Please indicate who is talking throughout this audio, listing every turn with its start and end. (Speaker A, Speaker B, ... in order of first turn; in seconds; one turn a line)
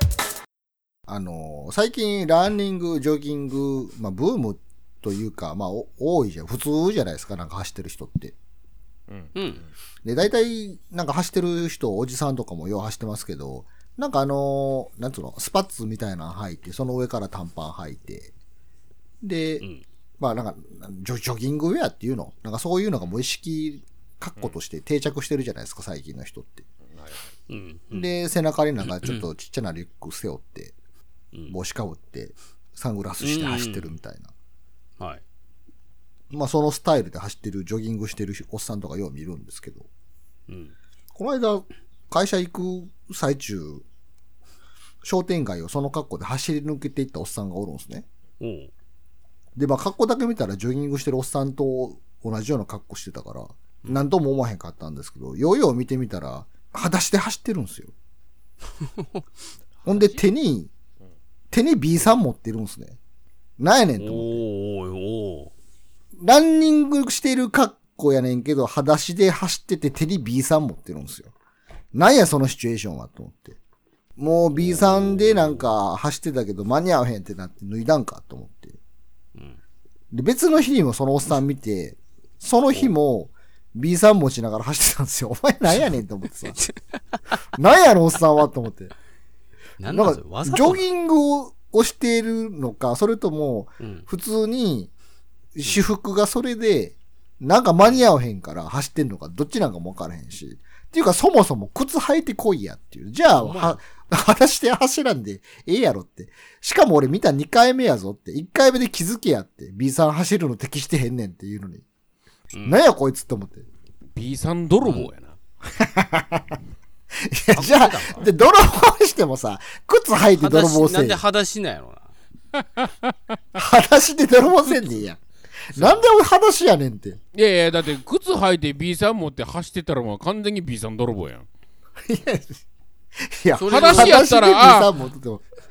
Speaker A: 1.1-8.3
Speaker B: 9.3-9.7
Speaker A: 10.1-18.3
Speaker A: 19.2-19.7
Speaker A: 20.2-26.6
Speaker C: 26.9-27.2
Speaker B: 27.5-28.1
Speaker A: 27.9-30.7
Speaker A: 31.5-34.3
Speaker B: 33.2-33.9
Speaker B: 35.0-35.2
Speaker A: 36.3-39.9
Speaker B: 40.5-40.8
Speaker A: 41.1-43.8
Speaker A: 45.0-48.1
Speaker B: 48.4-48.7
Speaker A: 49.6-57.9
Speaker B: 58.8-59.1
Speaker C: 59.8-60.2
Speaker A: 59.9-60.7
Speaker A: 61.5-63.0
Speaker A: 63.6-64.5
Speaker B: 64.0-65.5
Speaker A: 66.2-71.3
Speaker A: 71.9-73.6
Speaker A: 74.2-78.8
Speaker B: 74.6-75.7
Speaker A: 80.1-86.6
Speaker A: 87.5-88.9
Speaker B: 89.8-90.8
Speaker A: 89.9-94.9
Speaker B: 93.8-94.1
Speaker A: 95.5-111.8
Speaker B: 103.3-103.8
Speaker B: 112.5-112.8
Speaker A: 112.6-113.7
Speaker C: 114.2-115.4
Speaker B: 114.8-115.1
Speaker A: 115.8-116.6
Speaker A: 117.3-121.2
Speaker B: 117.5-118.3
Speaker B: 120.4-122.1
Speaker C: 122.8-123.1
Speaker A: 123.5-125.2
Speaker A: 125.7-127.2
Speaker B: 125.8-126.1
Speaker C: 127.3-131.5
Speaker A: 132.1-132.6
Speaker A: 133.4-135.5
Speaker B: 133.6-134.2
Speaker C: 133.7-134.9